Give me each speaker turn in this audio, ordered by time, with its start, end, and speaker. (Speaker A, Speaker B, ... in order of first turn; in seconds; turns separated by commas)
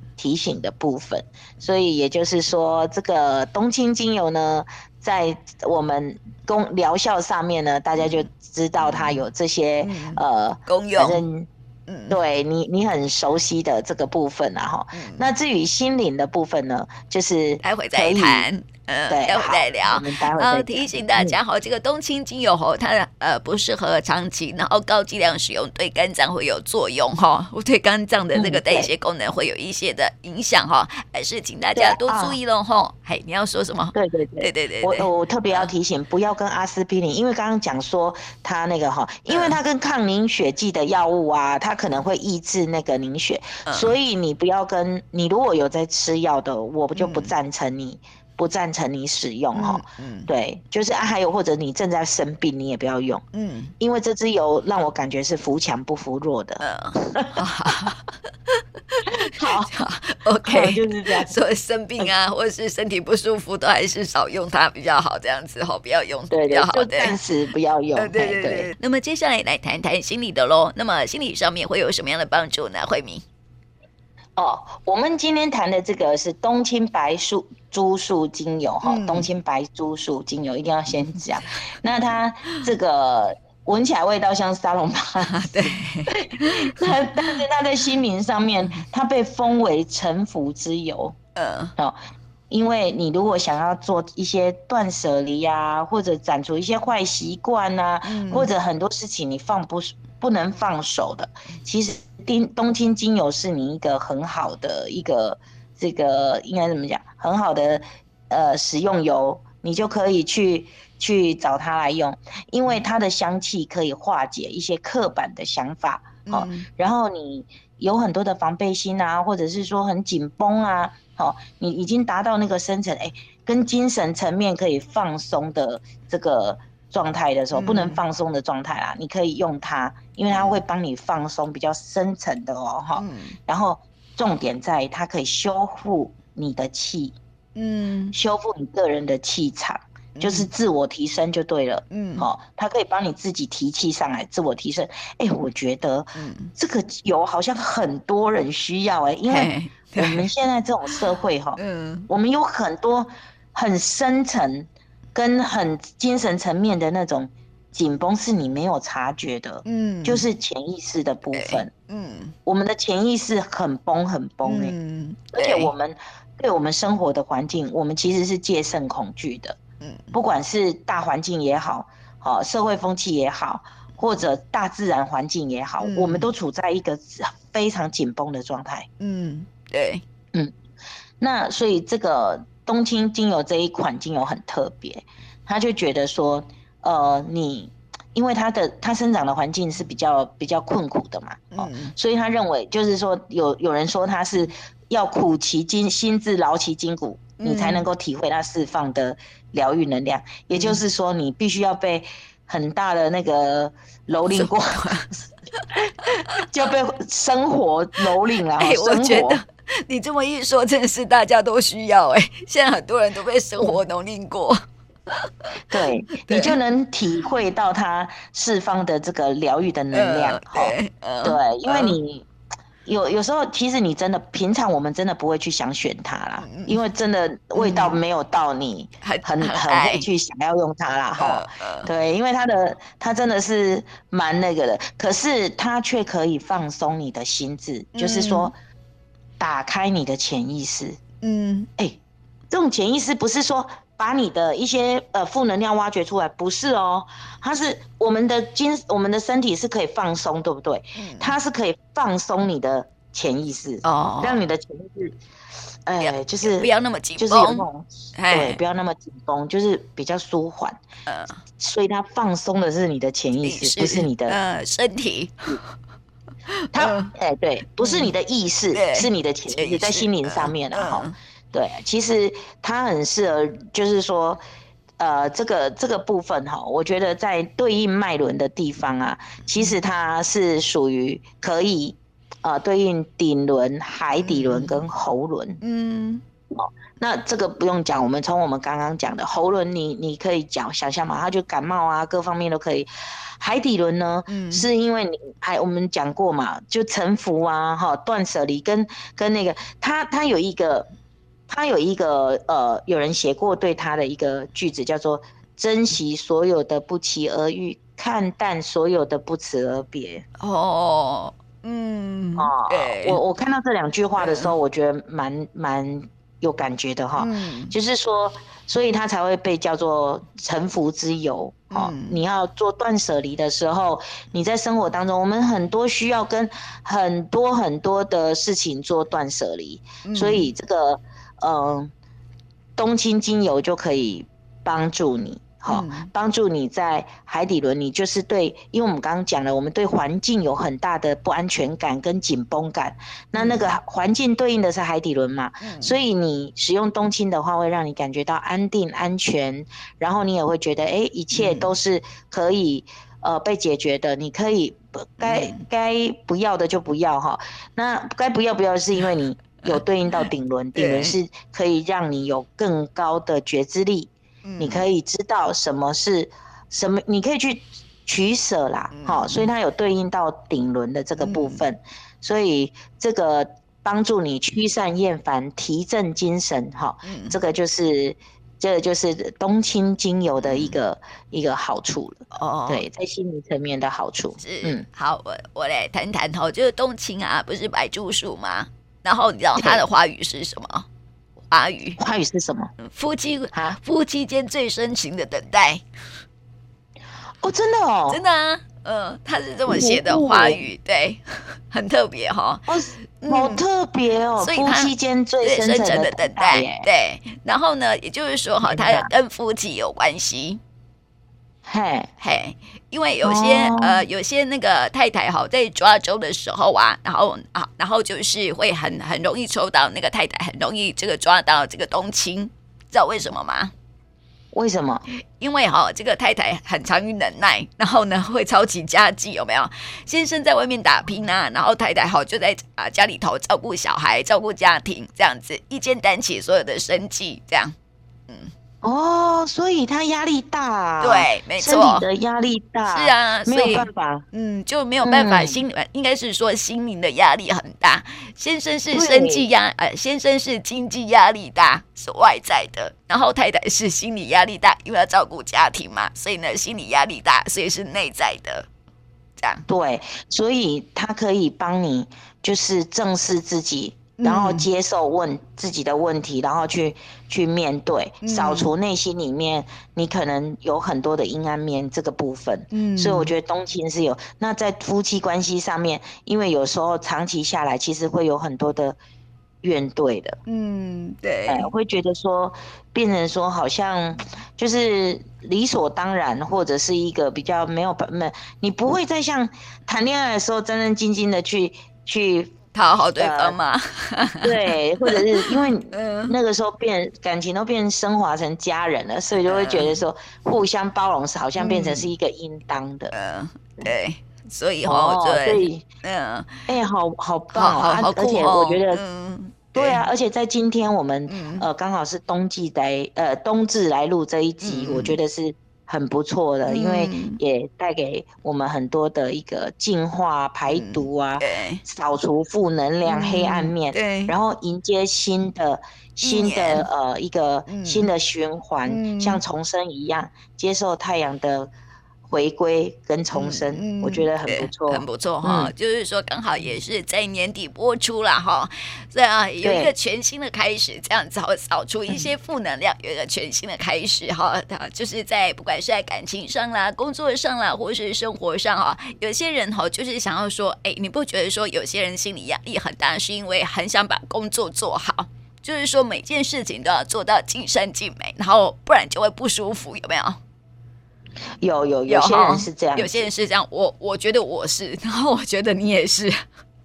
Speaker A: 0.2-11.5, Speaker B: 9.8-11.2, Speaker B: 11.9-12.2, Speaker A: 12.1-18.5, Speaker B: 14.9-15.3, Speaker B: 17.6-35.7, Speaker A: 19.1-21.4, Speaker A: 28.3-28.9, Speaker A: 31.6-32.4, Speaker A: 33.9-53.2, Speaker B: 39.3-39.6, Speaker B: 43.7-44.0, Speaker B: 47.0-47.3, Speaker B: 49.5-50.3, Speaker B: 53.3-53.7, Speaker A: 53.8-57.4, Speaker B: 56.6-58.1, Speaker B: 58.9-67.2, Speaker A: 59.2-59.7, Speaker A: 60.5-61.3, Speaker A: 66.3-68.7, Speaker B: 68.0-73.2, Speaker A: 74.4-91.2, Speaker B: 78.8-79.3, Speaker B: 85.3-87.3, Speaker B: 91.4-91.7, Speaker A: 92.5-137.2, Speaker B: 98.0-98.5, Speaker B: 116.2-116.7, Speaker B: 127.5-128.0, Speaker B: 130.3-130.6, Speaker B: 133.0-133.4, Speaker B: 137.6-138.2, Speaker A: 138.1-161.7, Speaker B: 140.2-140.5, Speaker B: 141.9-142.3, Speaker B: 146.2-146.5, Speaker B: 149.3-150.3, Speaker B: 151.6-152.1, Speaker B: 159.7-160.3, Speaker B: 161.3-162.3, Speaker A: 162.5-164.8, Speaker B: 164.4-165.7, Speaker A: 165.3-169.6, Speaker B: 169.8-170.2, Speaker A: 170.1-178.9, Speaker B: 175.8-176.3, Speaker B: 179.0-180.0, Speaker A: 181.2-205.2, Speaker B: 191.5-191.9, Speaker B: 197.4-197.9, Speaker B: 200.5-200.8, Speaker B: 204.3-206.4, Speaker A: 205.8-209.4, Speaker B: 208.6-215.3, Speaker A: 215.7-222.3, Speaker B: 216.1-216.6, Speaker B: 219.9-222.0, Speaker A: 222.8-238.5, Speaker B: 226.4-226.8, Speaker B: 227.6-228.0, Speaker B: 229.0-230.1, Speaker B: 231.2-231.9, Speaker B: 237.9-238.5, Speaker A: 239.4-241.0, Speaker B: 241.2-241.7, Speaker A: 242.5-255.2, Speaker B: 251.0-251.4, Speaker B: 253.8-254.4, Speaker A: 255.9-260.8, Speaker B: 256.0-258.6, Speaker B: 261.1-261.4, Speaker A: 261.6-264.4, Speaker B: 263.4-265.7, Speaker B: 266.7-267.1, Speaker A: 266.7-274.4, Speaker B: 267.8-268.1, Speaker B: 268.7-271.1, Speaker A: 275.0-285.6, Speaker B: 284.2-284.9, Speaker B: 285.6-286.2, Speaker A: 286.5-300.9, Speaker B: 294.3-294.7, Speaker A: 301.5-310.2, Speaker B: 310.4-313.2, Speaker A: 312.4-331.9, Speaker B: 314.2-314.6, Speaker B: 317.2-317.8, Speaker B: 321.7-322.2, Speaker B: 330.1-330.5, Speaker A: 332.8-384.9, Speaker B: 335.7-336.1, Speaker B: 343.4-343.8, Speaker B: 345.6-346.0, Speaker B: 351.3-351.7, Speaker B: 355.2-355.7, Speaker B: 359.6-361.2, Speaker B: 364.4-364.9, Speaker B: 368.9-369.5, Speaker B: 371.2-371.6, Speaker B: 377.1-377.4, Speaker B: 380.4-380.8, Speaker B: 382.3-382.9, Speaker B: 384.4-390.9, Speaker A: 389.6-389.8, Speaker B: 391.5-392.0, Speaker A: 392.0-392.7, Speaker B: 392.9-395.8, Speaker A: 393.5-393.8, Speaker A: 397.4-398.2, Speaker B: 398.1-403.6, Speaker A: 399.7-400.7, Speaker A: 402.7-406.9, Speaker B: 404.4-410.6, Speaker A: 408.6-409.1, Speaker A: 411.7-412.1, Speaker B: 412.2-423.7, Speaker A: 413.2-414.1, Speaker A: 424.5-425.0, Speaker B: 425.4-437.8, Speaker A: 438.8-444.2, Speaker B: 441.0-442.1, Speaker B: 442.9-458.7, Speaker A: 445.0-445.6, Speaker A: 448.9-449.5, Speaker B: 459.4-459.6, Speaker A: 459.7-479.0, Speaker B: 464.2-464.7, Speaker B: 468.2-468.7, Speaker B: 472.7-473.3, Speaker A: 479.6-480.4, Speaker B: 480.5-481.7, Speaker A: 481.5-492.5, Speaker B: 492.7-494.6, Speaker A: 493.2-493.6, Speaker A: 494.4-503.1, Speaker B: 495.1-496.4, Speaker B: 499.4-500.0, Speaker B: 501.6-502.1, Speaker B: 503.1-506.7, Speaker A: 504.9-505.9, Speaker A: 506.7-509.0, Speaker B: 507.5-510.1, Speaker A: 509.7-531.7, Speaker B: 511.3-511.6, Speaker B: 514.6-515.2, Speaker B: 516.7-517.4, Speaker B: 520.7-521.8, Speaker B: 523.0-524.4, Speaker B: 526.2-526.9, Speaker B: 527.7-528.1, Speaker B: 528.9-529.4, Speaker A: 532.3-535.7, Speaker B: 533.3-560.4, Speaker A: 539.6-539.9, Speaker A: 561.6-563.3, Speaker B: 562.1-566.4